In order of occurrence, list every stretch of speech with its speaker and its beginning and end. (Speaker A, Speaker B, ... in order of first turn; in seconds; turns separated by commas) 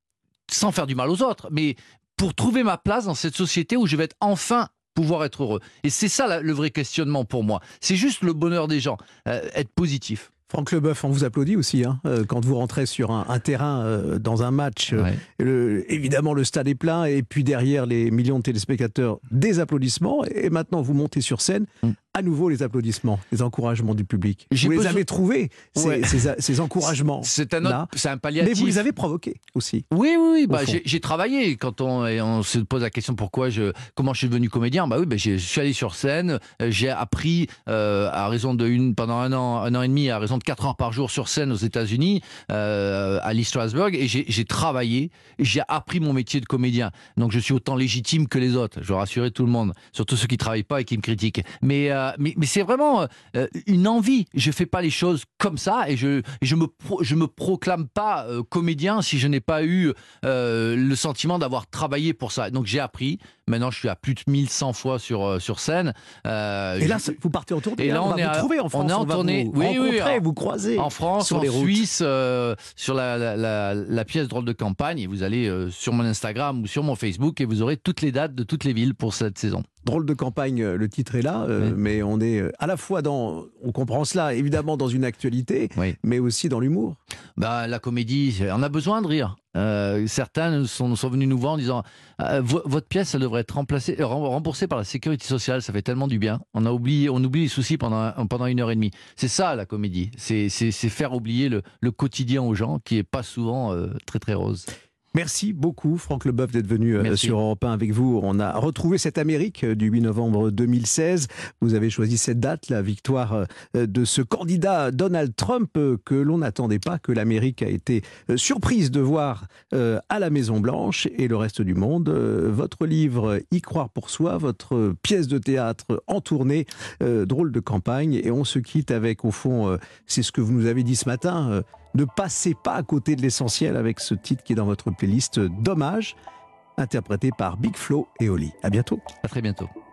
Speaker A: 0.5-10.3, Speaker B: 10.5-29.9, Speaker A: 24.5-25.0, Speaker A: 25.8-26.1, Speaker A: 27.2-28.8, Speaker A: 29.9-67.1, Speaker B: 30.5-30.8, Speaker B: 66.8-71.8, Speaker A: 67.8-70.2, Speaker A: 70.8-79.7, Speaker B: 79.8-87.0, Speaker A: 87.4-104.7, Speaker B: 105.1-136.2, Speaker A: 107.0-107.3, Speaker B: 136.8-139.0, Speaker A: 139.2-139.7